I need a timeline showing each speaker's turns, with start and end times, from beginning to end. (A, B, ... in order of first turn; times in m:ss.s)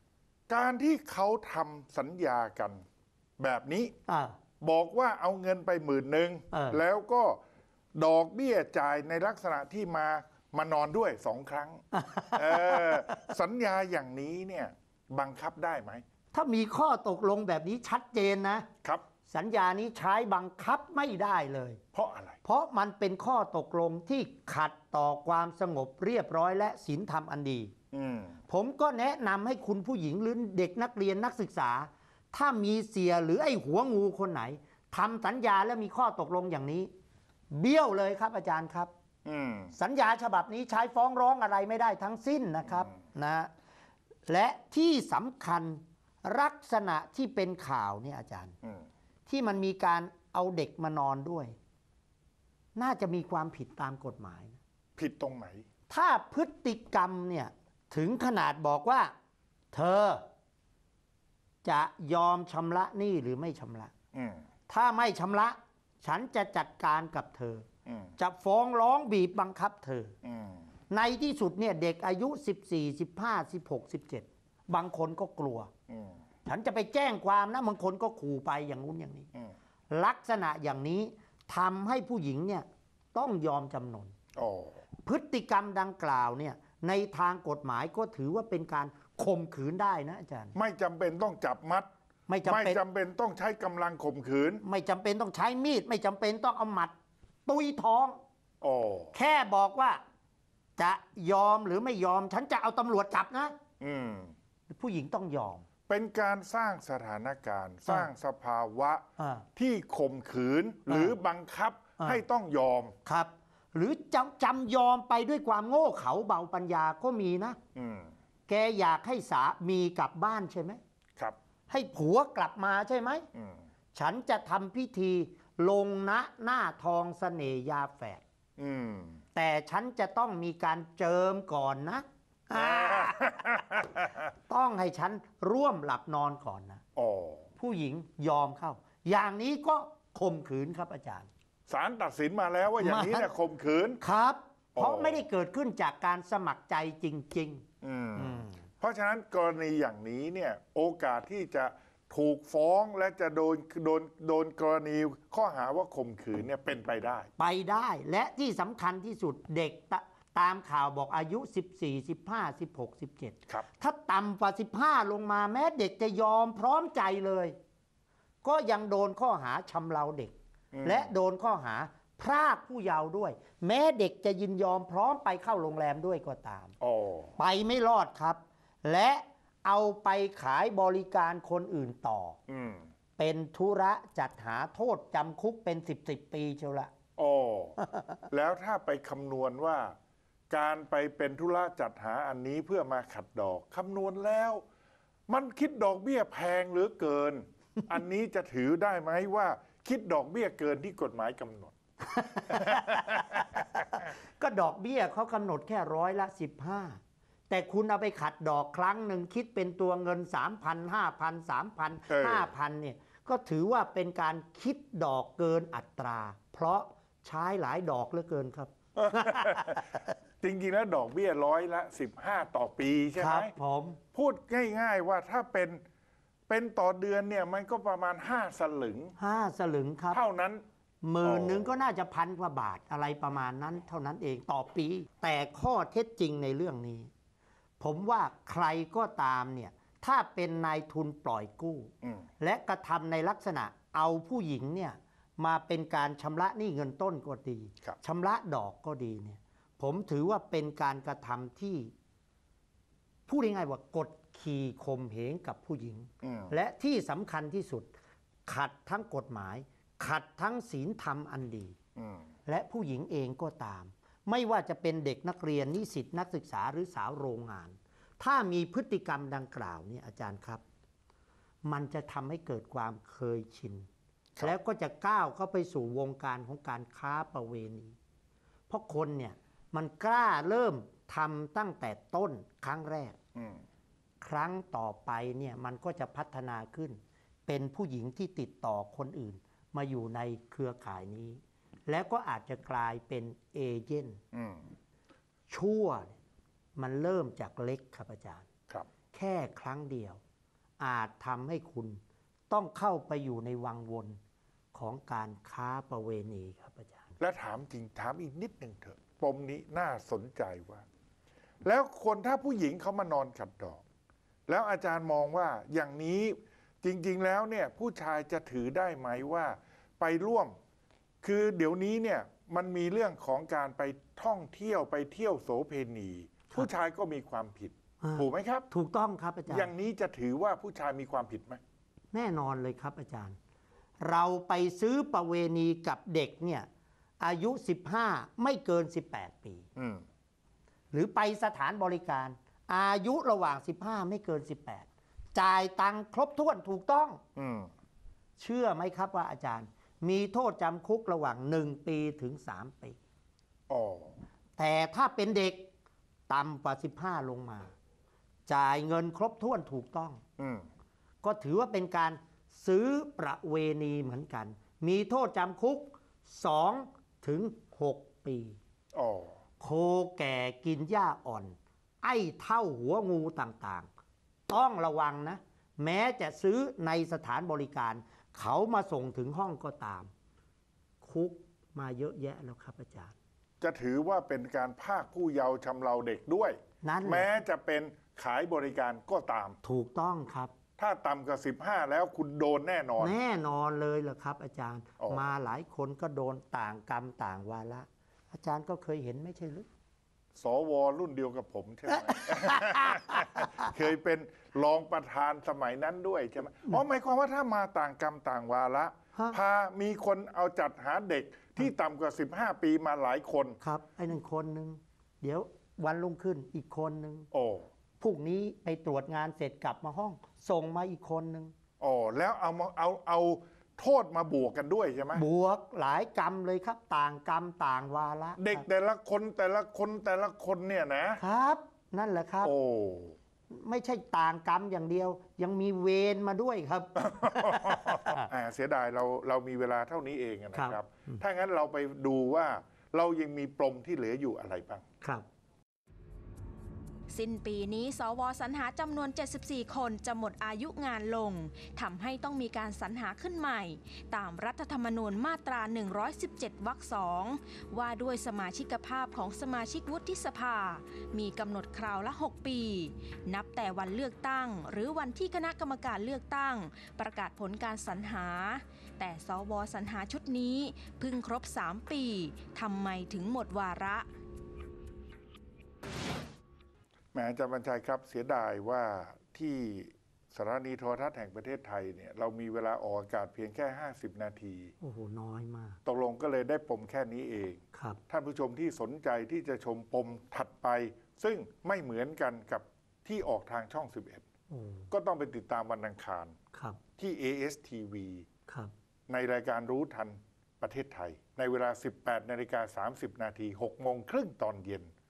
0:00.5-0:02.8 A
0:03.4-0:03.9 A
0:04.1-0:04.4 B
0:04.6-0:07.4 A
0:06.5-0:06.8 B
0:08.0-0:16.0 A
0:11.9-0:13.2 B
0:16.3-0:18.7 B
0:19.3-0:21.8 B
0:21.9-0:22.4 A
0:22.4-0:27.7 B
0:27.9-0:28.4 A
0:28.5-0:36.9 B
0:37.5-0:38.9 B
0:39.3-0:39.7 A
0:39.7-0:43.5 B
0:44.3-0:48.6 B
0:49.3-0:51.6 B
0:52.8-0:54.6 B
0:55.0-0:55.6 A
0:55.9-0:59.1 B
0:59.7-1:00.2 B
1:01.6-1:03.9 B
1:04.1-1:04.4 A
1:04.7-1:07.6 B
1:07.9-1:08.2 A
1:08.2-1:10.1 B
1:10.2-1:10.6 A
1:10.9-1:15.7 B
1:15.9-1:16.2 A
1:16.5-1:19.3 B
1:19.9-1:24.1 B
1:24.4-1:24.8 A
1:25.0-1:30.6 B
1:30.5-1:31.9 A
1:32.3-1:32.8 B
1:32.4-1:34.6 A
1:34.6-1:36.9 B
1:37.5-1:38.2 B
1:38.6-1:39.1 A
1:39.1-1:40.0 B
1:40.8-1:43.6 B
1:43.8-1:44.3 A
1:44.7-1:45.6 B
1:45.9-1:49.0 A
1:47.8-1:48.1 B
1:49.2-1:49.4 B
1:49.6-1:53.0 A
1:50.9-1:51.2 B
1:53.0-1:57.6 B
1:57.8-1:58.1 A
1:58.5-2:00.8 B
2:01.7-2:03.2 B
2:03.3-2:03.6 A
2:03.9-2:08.2 B
2:08.6-2:09.2 A
2:09.4-2:13.4 B
2:12.6-2:14.2 A
2:14.5-2:16.8 B
2:17.0-2:17.5 A
2:17.6-2:21.3 B
2:21.7-2:24.0 A
2:22.8-2:23.3 B
2:24.0-2:27.6 B
2:24.8-2:25.2 A
2:27.8-2:37.3 A
2:28.2-2:28.6 B
2:37.4-2:47.6 B
2:48.4-2:56.7 B
2:50.7-2:51.1 A
2:56.8-2:57.4 A
2:57.4-3:02.4 B
3:02.5-3:02.9 A
3:03.2-3:06.9 B
3:07.2-3:07.8 A
3:07.8-3:08.2 B
3:08.3-3:09.9 A
3:10.5-3:14.6 A
3:15.3-3:21.7 A
3:22.2-3:27.0 B
3:22.5-3:23.5 A
3:27.5-3:40.0 B
3:32.1-3:32.5 A
3:39.0-3:39.8 A
3:40.4-3:43.5 A
3:43.2-3:44.0 B
3:44.1-3:45.8 A
3:46.5-3:49.2 A
3:49.2-3:50.2 B
3:50.1-3:50.6 A
3:51.0-3:57.1 B
3:51.2-3:51.7 A
3:57.8-4:11.9 B
4:13.3-4:17.9 B
4:16.2-4:16.5 A
4:18.5-4:21.8 B
4:22.0-4:22.3 A
4:22.5-4:30.6 B
4:31.7-4:33.9 B
4:34.4-4:38.0 B
4:38.7-4:43.2 B
4:43.4-4:43.6 A
4:44.2-4:54.2 B
4:54.3-4:54.6 A
4:55.5-4:56.2 B
4:56.8-4:58.5 B
4:59.1-5:00.2 B
5:00.8-5:04.2 B
5:04.7-5:07.2 B
5:07.2-5:10.8 A
5:11.6-5:13.8 A
5:14.5-5:20.6 A
5:21.2-5:28.7 A
5:28.0-5:29.7 B
5:29.5-5:31.6 A
5:32.1-5:33.4 B
5:34.0-5:36.7 B
5:37.2-5:39.7 B
5:39.8-5:40.0 A
5:40.9-5:47.2 B
5:47.4-5:47.7 A
5:48.4-5:53.0 B
5:53.7-5:54.2 A
5:54.6-5:55.7 B
5:56.3-5:57.7 B
5:58.5-6:00.2 B
6:00.4-6:00.7 A
6:01.2-6:08.6 B
6:08.9-6:09.3 A
6:09.6-6:13.9 B
6:14.5-6:20.1 B
6:21.0-6:23.2 B
6:23.6-6:29.6 A
6:26.8-6:27.3 B
6:29.6-6:30.5 B
6:30.8-6:33.2 A
6:33.0-6:39.7 B
6:40.4-6:53.6 A
6:42.2-6:43.2 B
6:53.6-6:57.3 B
6:57.3-6:57.7 A
6:58.0-7:01.5 B
7:01.8-7:05.2 A
7:05.2-7:08.6 B
7:08.4-7:11.2 A
7:11.2-7:12.5 B
7:12.4-7:13.2 A
7:13.5-7:18.3 B
7:17.0-7:24.8 A
7:20.5-7:21.2 B
7:27.1-7:54.1 C
7:57.1-8:04.7 A
8:04.8-8:05.8 B
8:05.8-8:14.2 A
8:07.7-8:08.0 B
8:14.5-8:14.9 B
8:14.9-8:16.4 A
8:16.5-8:16.8 B
8:17.0-8:18.3 A
8:19.1-8:24.9 A